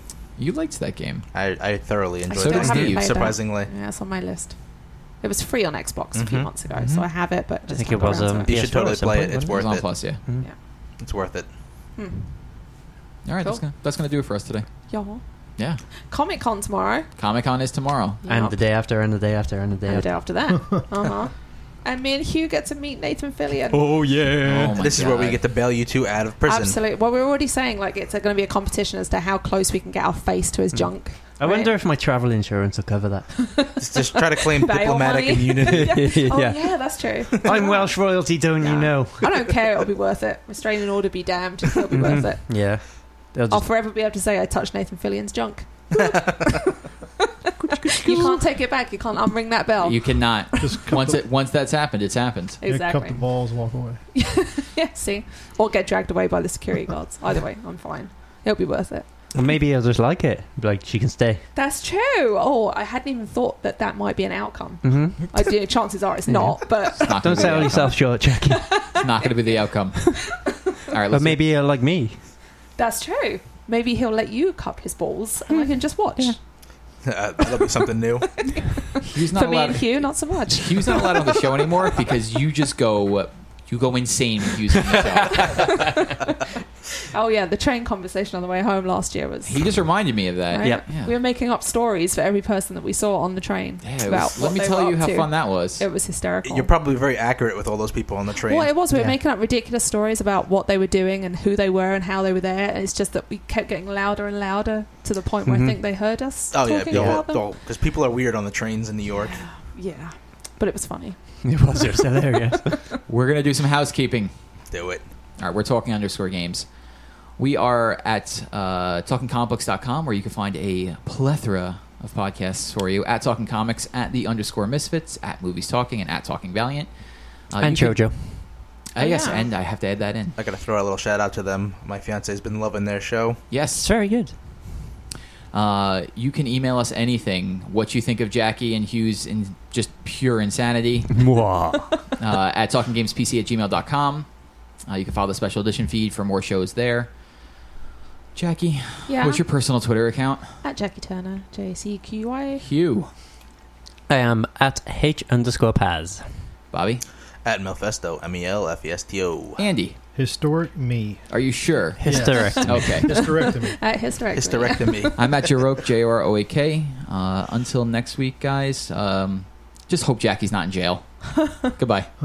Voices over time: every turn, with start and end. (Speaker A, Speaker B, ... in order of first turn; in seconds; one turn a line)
Speaker A: 0.4-1.3
Speaker B: 1.3-3.7
Speaker C: 2.3-4.6
Speaker A: 2.4-3.2
Speaker C: 5.2-8.8
Speaker B: 6.2-6.5
Speaker A: 6.8-7.1
Speaker D: 7.7-10.5
Speaker B: 8.5-10.1
Speaker A: 9.5-10.2
Speaker B: 11.0-11.5
Speaker C: 12.0-12.3
Speaker A: 13.2-14.7
Speaker C: 14.9-15.2
Speaker C: 16.1-17.1
Speaker A: 17.2-18.2
Speaker C: 18.2-18.6
Speaker D: 18.3-20.3
Speaker C: 19.9-23.9
Speaker D: 23.7-24.8
Speaker A: 24.4-25.4
Speaker B: 24.7-26.8
Speaker C: 26.4-31.7
Speaker D: 30.7-33.8
Speaker C: 33.4-37.9
Speaker B: 33.8-36.2
Speaker D: 35.6-39.6
Speaker C: 38.6-42.6
Speaker D: 41.9-43.6
Speaker C: 43.5-46.6
Speaker D: 47.6-48.4
Speaker C: 47.8-50.7
Speaker A: 49.8-52.6
Speaker E: 50.6-51.2
Speaker C: 52.6-53.2
Speaker E: 52.6-54.0
Speaker C: 54.1-59.1
Speaker D: 59.4-61.5
Speaker C: 61.5-70.0
Speaker D: 64.8-65.4
Speaker D: 66.3-68.9
Speaker A: 66.9-68.0
Speaker A: 68.9-70.3
Speaker A: 70.9-71.4
Speaker D: 71.1-72.3
Speaker C: 72.8-76.4
Speaker D: 75.5-76.3
Speaker B: 77.0-78.4
Speaker C: 78.4-81.4
Speaker A: 79.0-85.8
Speaker C: 85.4-86.3
Speaker C: 87.0-89.7
Speaker A: 89.4-91.2
Speaker C: 90.5-96.7
Speaker A: 93.8-95.8
Speaker B: 96.4-98.7
Speaker C: 98.4-107.5
Speaker D: 98.9-99.2
Speaker D: 105.5-105.8
Speaker B: 106.5-109.4
Speaker D: 106.9-107.2
Speaker C: 109.2-111.4
Speaker D: 111.4-112.8
Speaker C: 112.5-113.0
Speaker A: 113.1-114.3
Speaker B: 114.7-115.1
Speaker A: 115.4-116.7
Speaker A: 117.4-126.9
Speaker A: 127.5-128.1
Speaker D: 127.6-128.5
Speaker A: 128.9-130.4
Speaker C: 129.0-129.5
Speaker B: 130.4-133.4
Speaker A: 133.5-133.9
Speaker D: 133.8-134.4
Speaker A: 135.5-141.3
Speaker D: 141.1-141.9
Speaker A: 142.2-144.3
Speaker A: 144.9-147.1
Speaker A: 148.3-150.5
Speaker C: 149.1-149.4
Speaker C: 150.6-152.7
Speaker A: 152.6-153.1
Speaker D: 154.1-156.3
Speaker A: 156.7-157.0
Speaker B: 157.4-159.6
Speaker A: 159.6-160.0
Speaker E: 160.2-161.3
Speaker A: 161.3-163.3
Speaker D: 162.0-163.4
Speaker E: 162.0-163.8
Speaker C: 163.1-165.2
Speaker B: 164.3-165.5
Speaker A: 165.2-171.1
Speaker A: 171.6-172.1